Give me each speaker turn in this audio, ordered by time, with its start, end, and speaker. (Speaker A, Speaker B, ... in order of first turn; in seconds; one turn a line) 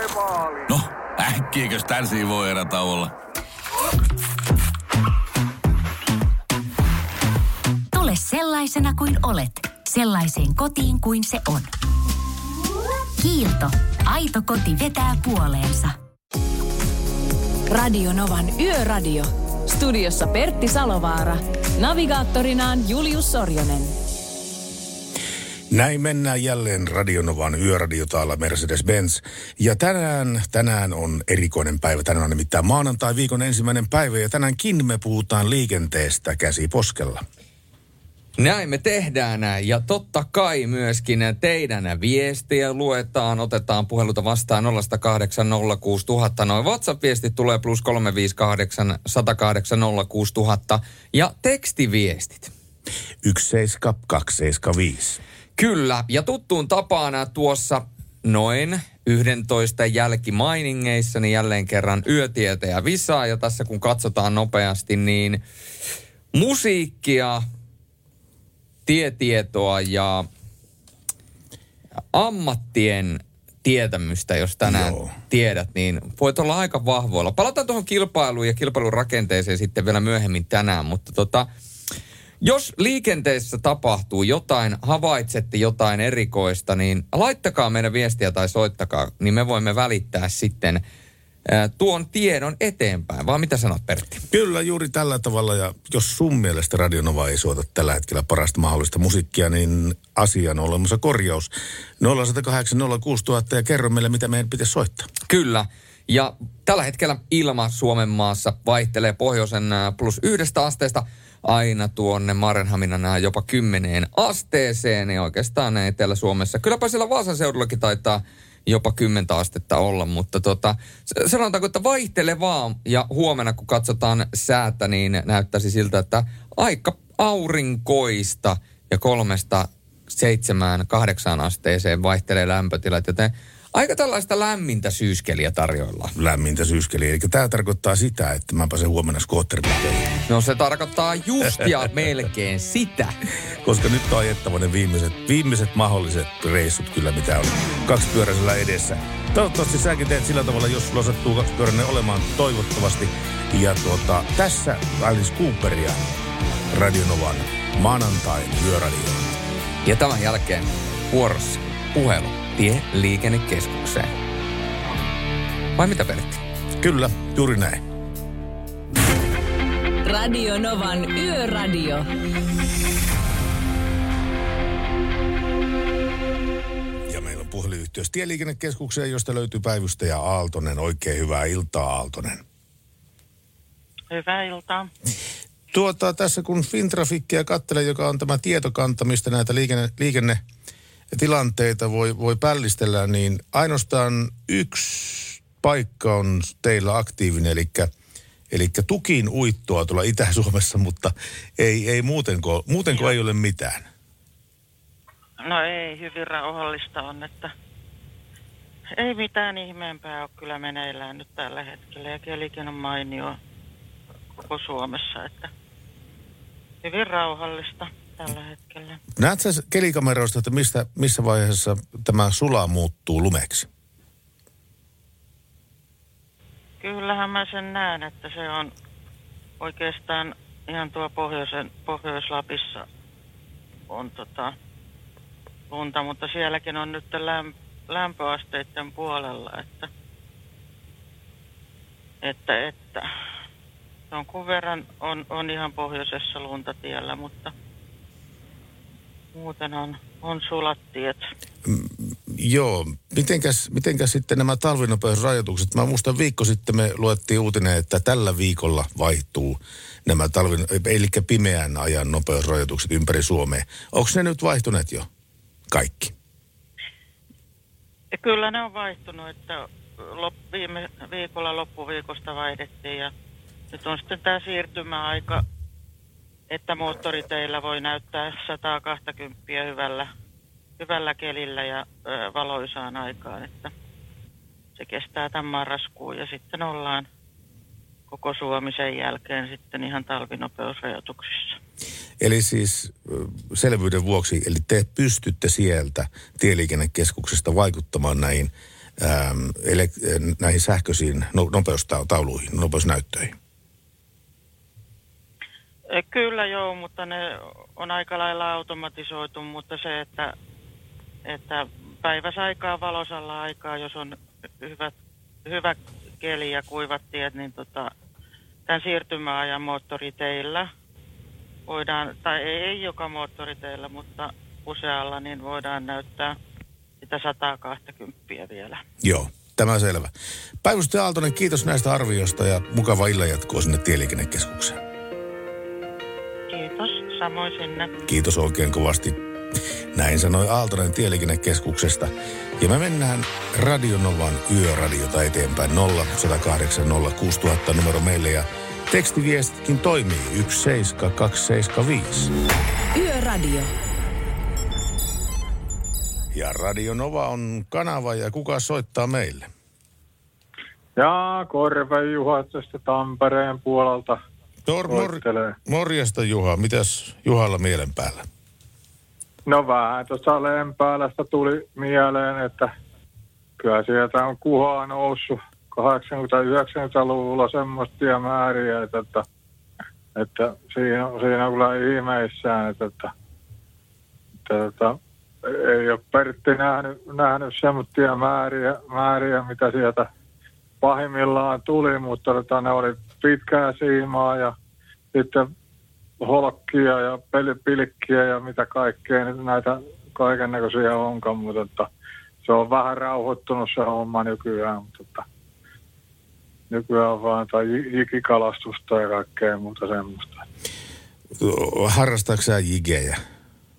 Speaker A: 0.7-3.1
Speaker B: 7.9-11.7
Speaker B: 13.2-15.9
Speaker C: 17.7-23.9
Speaker D: 25.7-37.2
Speaker E: 38.4-52.5
Speaker D: 53.2-55.2
Speaker E: 55.6-65.4
Speaker E: 66.3-67.5
Speaker E: 68.9-70.3
Speaker E: 72.1-81.5
Speaker D: 74.6-75.2
Speaker E: 82.4-90.8
Speaker E: 91.5-94.2
Speaker D: 94.3-105.1
Speaker E: 105.3-136.1
Speaker D: 136.2-140.2
Speaker E: 140.3-143.2
Speaker D: 143.6-156.0
Speaker D: 156.7-159.2
Speaker E: 159.8-164.1
Speaker E: 165.8-166.4
Speaker D: 166.8-167.8
Speaker C: 170.0-172.1
Speaker D: 177.1-182.4
Speaker F: 184.1-184.9
Speaker D: 185.7-190.4
Speaker D: 191.1-197.9
Speaker D: 198.5-203.9
Speaker F: 205.4-207.5
Speaker F: 208.9-213.4
Speaker F: 214.4-215.5
Speaker F: 216.8-219.0
Speaker D: 219.2-223.7
Speaker F: 226.8-228.7
Speaker F: 229.6-232.8
Speaker F: 233.9-234.5
Speaker F: 235.7-239.9
Speaker F: 242.2-243.1
Speaker F: 244.1-247.5
Speaker F: 249.3-251.3
Speaker D: 251.7-265.1
Speaker D: 265.7-266.1
Speaker F: 268.1-273.1
Speaker F: 273.7-275.4
Speaker F: 276.5-280.1
Speaker F: 280.8-283.7
Speaker F: 284.8-287.1
Speaker F: 288.1-291.6
Speaker D: 292.2-303.4
Speaker F: 305.9-310.4
Speaker F: 311.2-314.9
Speaker F: 315.4-317.9
Speaker F: 318.7-320.7
Speaker F: 321.7-326.4
Speaker F: 327.0-328.8
Speaker D: 329.0-330.1
Speaker D: 330.6-334.8
Speaker F: 336.5-337.9
Speaker D: 338.1-339.2
Speaker D: 339.9-352.3
Speaker C: 352.9-353.7
Speaker D: 356.3-359.5
Speaker G: 361.0-364.2
Speaker D: 364.6-368.2
Speaker G: 364.9-365.6
Speaker G: 369.5-372.7
Speaker G: 373.6-379.2
Speaker G: 380.1-383.1
Speaker G: 384.4-390.1
Speaker G: 390.8-394.5
Speaker G: 395.1-395.5
Speaker G: 396.2-401.9
Speaker G: 402.4-405.2
Speaker G: 406.7-410.4
Speaker D: 411.4-413.2